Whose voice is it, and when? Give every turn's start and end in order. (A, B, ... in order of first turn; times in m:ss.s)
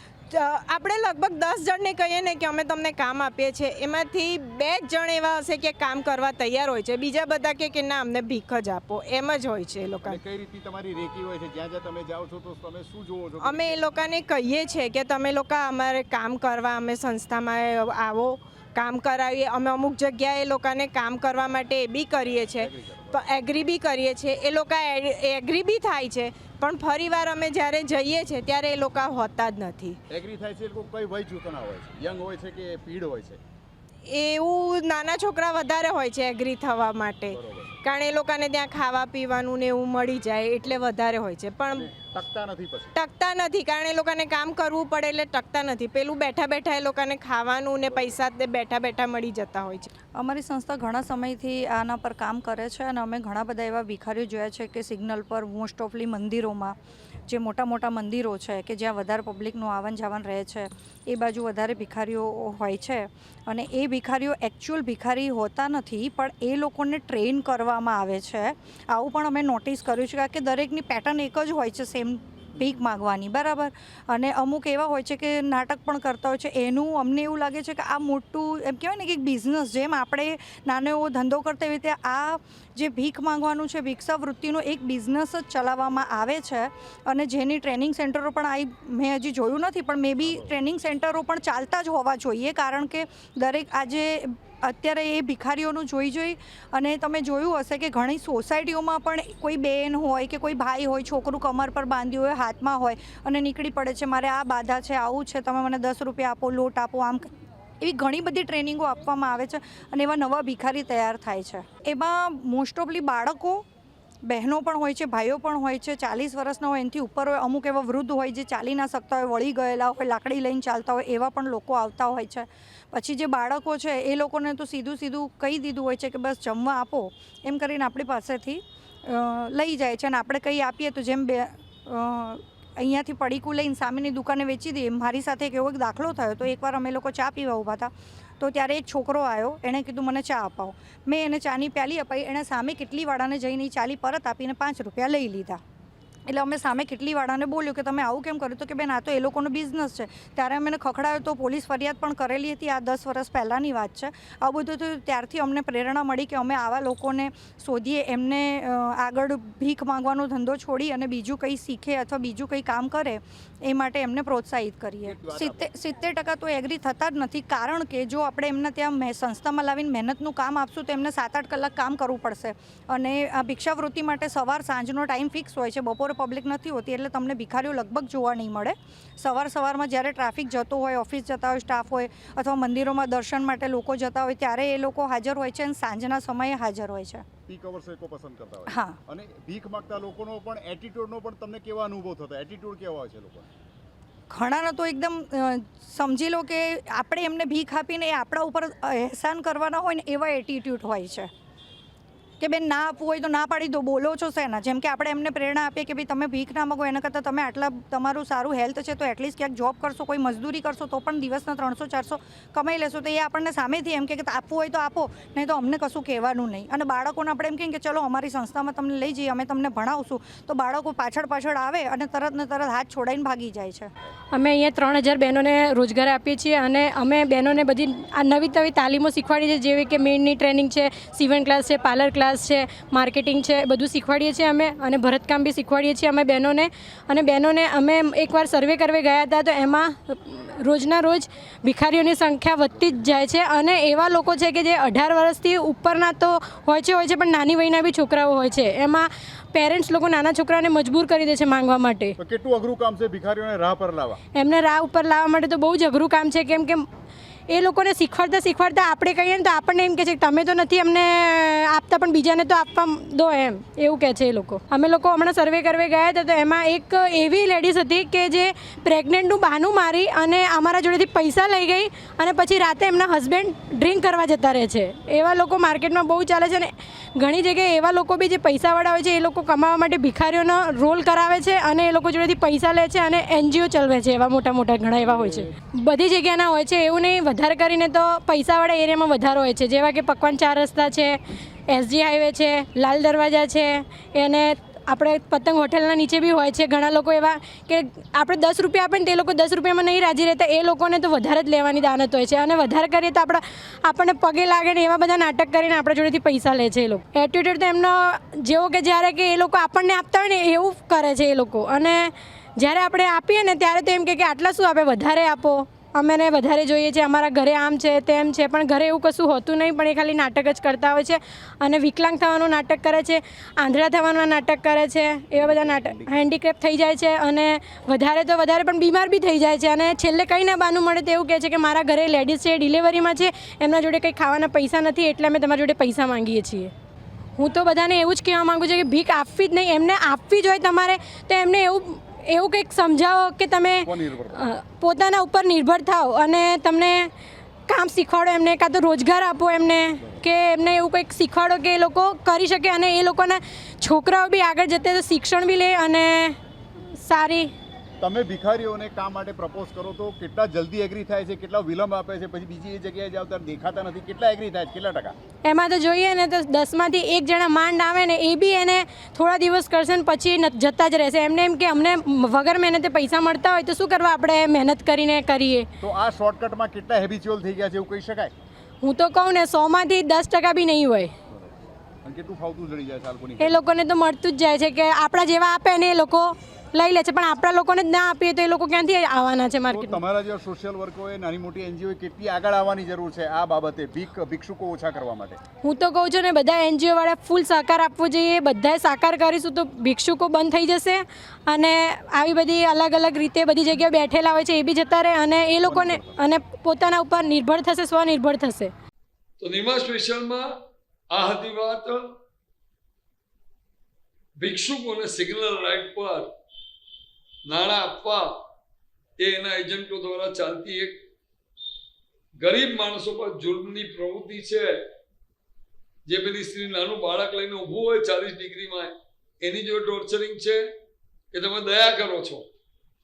0:00.3-0:10.2 A
0:10.0-0:13.8 B
0:13.4-0:30.0 A
0:22.1-0:23.2 B
0:30.1-0:33.4 B
0:34.1-0:41.9 A
0:37.3-0:37.7 B
0:41.7-0:43.0 B
0:42.9-0:49.9 A
0:47.8-0:48.2 B
0:50.2-0:56.8 C
0:57.3-1:47.3 C
1:30.2-1:30.6 B
1:47.8-1:53.6 C
1:54.2-2:25.6 C
2:26.3-3:07.2 C
2:45.0-2:45.7 B
3:07.5-3:13.5 B
3:08.7-3:09.0 C
3:14.3-3:21.3 C
3:22.4-3:43.9 C
3:44.3-4:12.1 D
4:02.7-4:03.2 B
4:12.2-4:14.2 B
4:14.3-4:16.9 D
4:17.5-5:36.7 D
4:45.0-4:45.5 B
5:25.3-5:26.3 B
5:37.4-5:47.1 D
5:43.8-5:44.5 B
5:47.7-5:56.4 D
5:57.0-5:57.5 D
5:58.0-6:05.1 B
6:05.4-6:15.7 D
6:15.8-6:18.3 B
6:18.8-6:21.1 D
6:21.3-6:23.6 B
6:23.4-6:30.0 D
6:29.7-6:35.4 B
6:35.6-6:48.7 D
6:45.6-6:46.2 B
6:49.4-6:50.6 E
6:51.1-6:52.1 E
6:54.4-6:56.3 E
6:57.5-6:58.4 E
6:59.2-7:01.0 E
7:02.4-7:04.8 E
7:06.0-7:10.7 E
7:11.3-7:12.5 E